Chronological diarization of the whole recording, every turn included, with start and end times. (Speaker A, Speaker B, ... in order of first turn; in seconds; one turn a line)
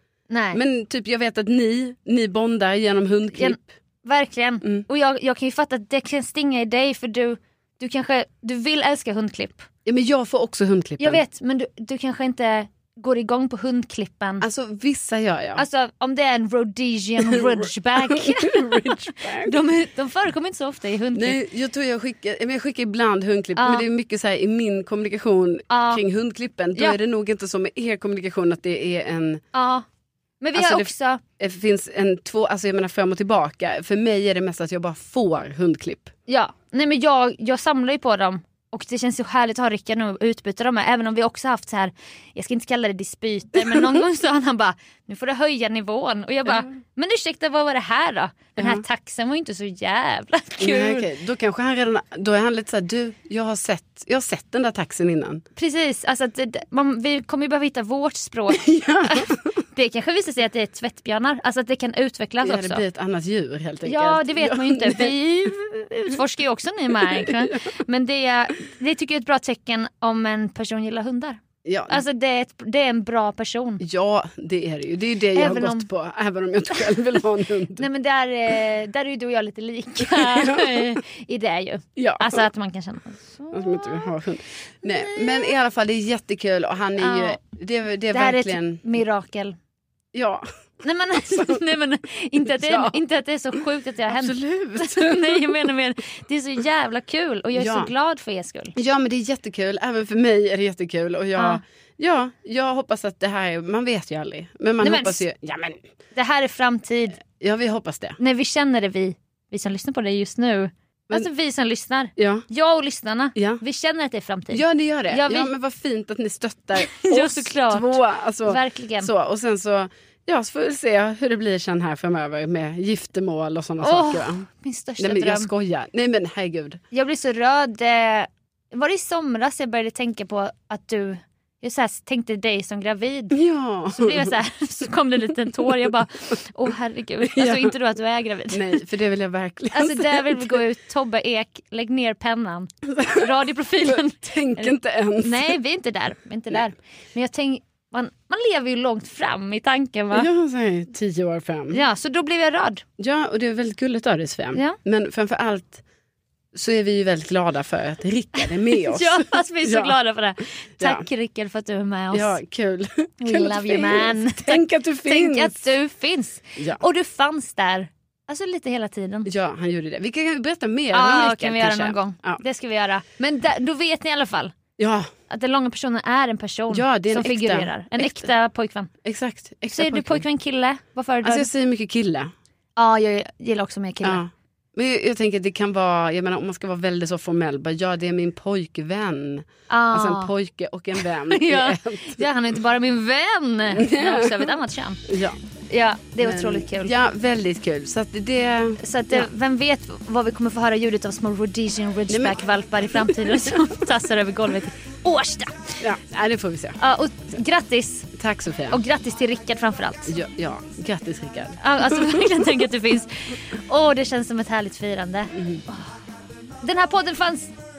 Speaker A: 0.3-0.6
Speaker B: 0.5-3.7
Speaker A: 3.3-9.7
Speaker B: 9.8-11.2
Speaker A: 11.0-14.4
Speaker B: 14.4-15.6
Speaker A: 15.6-21.4
Speaker B: 17.2-19.6
Speaker B: 21.1-29.4
Speaker A: 23.6-23.9
Speaker A: 25.7-26.0
Speaker A: 29.5-29.8
Speaker A: 30.4-31.2
Speaker B: 30.5-36.1
Speaker A: 36.3-51.1
Speaker B: 43.6-44.0
Speaker B: 48.6-48.8
Speaker B: 50.6-55.4
Speaker A: 55.5-62.8
Speaker B: 58.5-59.6
Speaker B: 62.4-65.1
Speaker A: 63.8-73.8
Speaker B: 67.0-67.7
Speaker B: 71.6-72.0
Speaker B: 73.8-77.9
Speaker A: 75.3-75.9
Speaker A: 77.8-84.1
Speaker B: 80.0-81.0
Speaker B: 82.0-82.4
Speaker B: 83.5-88.8
Speaker A: 84.8-85.5
Speaker A: 87.0-87.4
Speaker A: 88.1-89.6
Speaker B: 90.1-90.5
Speaker A: 90.8-98.8
Speaker B: 91.2-91.6
Speaker B: 92.4-93.0
Speaker B: 94.1-95.7
Speaker B: 97.5-97.9
Speaker B: 98.8-105.8
Speaker A: 104.8-105.2
Speaker A: 106.1-107.2
Speaker B: 107.2-108.2
Speaker A: 108.2-115.5
Speaker B: 112.2-112.5
Speaker B: 113.3-113.6
Speaker B: 114.5-124.5
Speaker A: 116.8-119.1
Speaker A: 123.8-125.5
Speaker B: 125.0-126.8
Speaker A: 126.9-138.8
Speaker B: 133.3-134.4
Speaker B: 137.2-137.7
Speaker B: 138.5-140.6
Speaker A: 139.7-150.3
Speaker B: 142.8-143.3
Speaker B: 143.8-145.6
Speaker B: 150.1-151.8
Speaker A: 151.7-152.8
Speaker B: 153.0-155.8
Speaker B: 156.5-159.9
Speaker A: 158.4-162.4
Speaker B: 160.8-161.1
Speaker B: 162.1-165.7
Speaker A: 163.2-169.3
Speaker B: 169.2-172.4
Speaker A: 170.9-174.5
Speaker B: 174.8-175.1
Speaker A: 175.3-178.9
Speaker B: 176.7-178.3
Speaker B: 179.0-180.2
Speaker A: 179.7-181.5
Speaker B: 181.2-182.3
Speaker A: 182.8-184.2
Speaker B: 184.0-192.2
Speaker A: 189.7-190.3
Speaker A: 191.0-195.0
Speaker B: 193.7-194.5
Speaker B: 195.1-195.4
Speaker A: 195.7-196.9
Speaker B: 196.2-199.3
Speaker A: 198.8-205.8
Speaker B: 202.1-203.8
Speaker B: 205.8-206.8
Speaker A: 206.8-208.1
Speaker B: 208.2-208.8
Speaker A: 208.7-210.1
Speaker B: 210.1-212.4
Speaker A: 211.6-215.9
Speaker B: 215.3-215.6
Speaker A: 216.6-217.5